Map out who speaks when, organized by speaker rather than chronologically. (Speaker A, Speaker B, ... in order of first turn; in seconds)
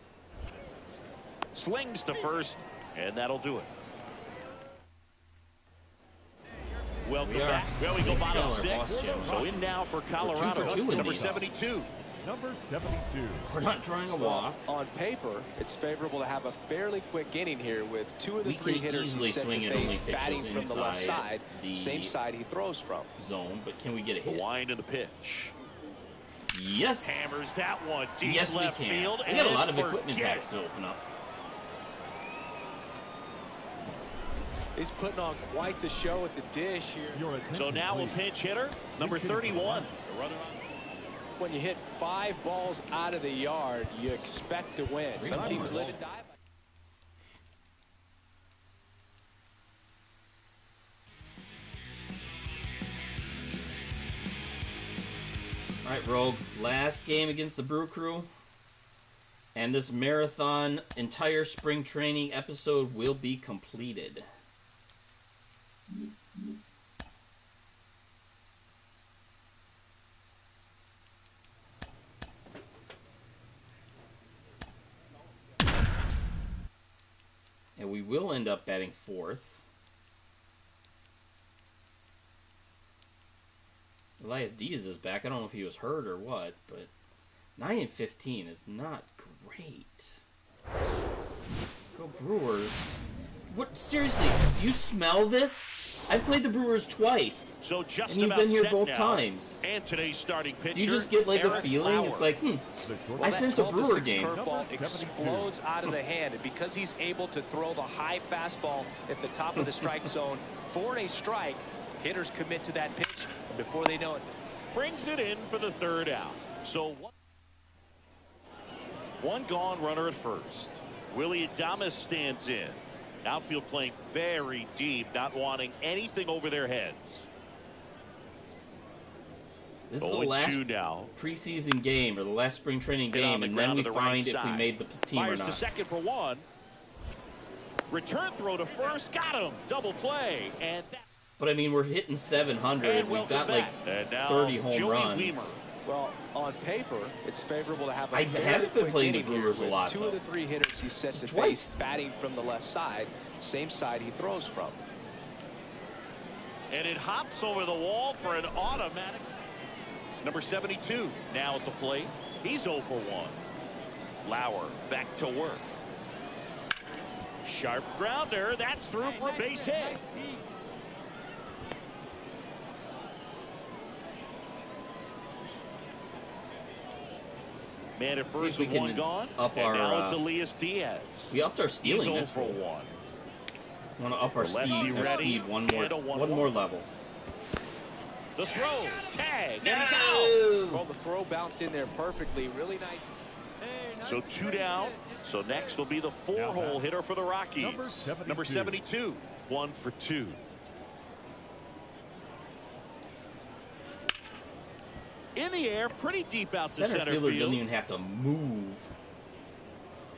Speaker A: 1.6-3.7, 7.0-11.9, 24.2-25.5, 27.0-30.5, 37.5-40.5, 97.6-102.3, 114.7-117.1, 119.2-127.3, 130.0-131.1, 133.1-136.4, 137.9-141.1, 142.8-145.6, 156.7-159.3, 160.2-163.4, 164.2-165.7, 167.4-170.1, 177.9-182.9, 184.4-186.5, 188.4-190.4, 194.0-200.4, 205.3-207.6
Speaker B: 7.2-9.6, 10.2-11.4, 13.4-14.7, 18.4-22.1, 23.2-24.4, 26.5-27.4, 28.2-31.0, 45.1-46.0, 55.8-58.3, 59.5-64.3, 77.8-79.7, 84.2-86.9, 87.6-90.2, 91.9-99.6, 100.7-104.4, 109.6-110.1, 129.9-130.6, 131.1-135.7, 141.4-143.7, 144.3-145.6, 148.1-150.2, 151.1-151.8, 178.3-180.2, 181.3-182.6, 184.0-186.9, 189.6-190.8, 206.6-208.9
Speaker C: 8.0-9.7, 10.4-11.4, 12.2-13.5, 37.1-38.2, 39.0-39.9, 45.2-45.9, 102.8-105.5, 196.3-196.9, 197.6-198.8
Speaker D: 14.2-23.1, 34.8-37.2, 41.4-46.3, 103.2-114.4, 145.8-154.8, 190.7-193.1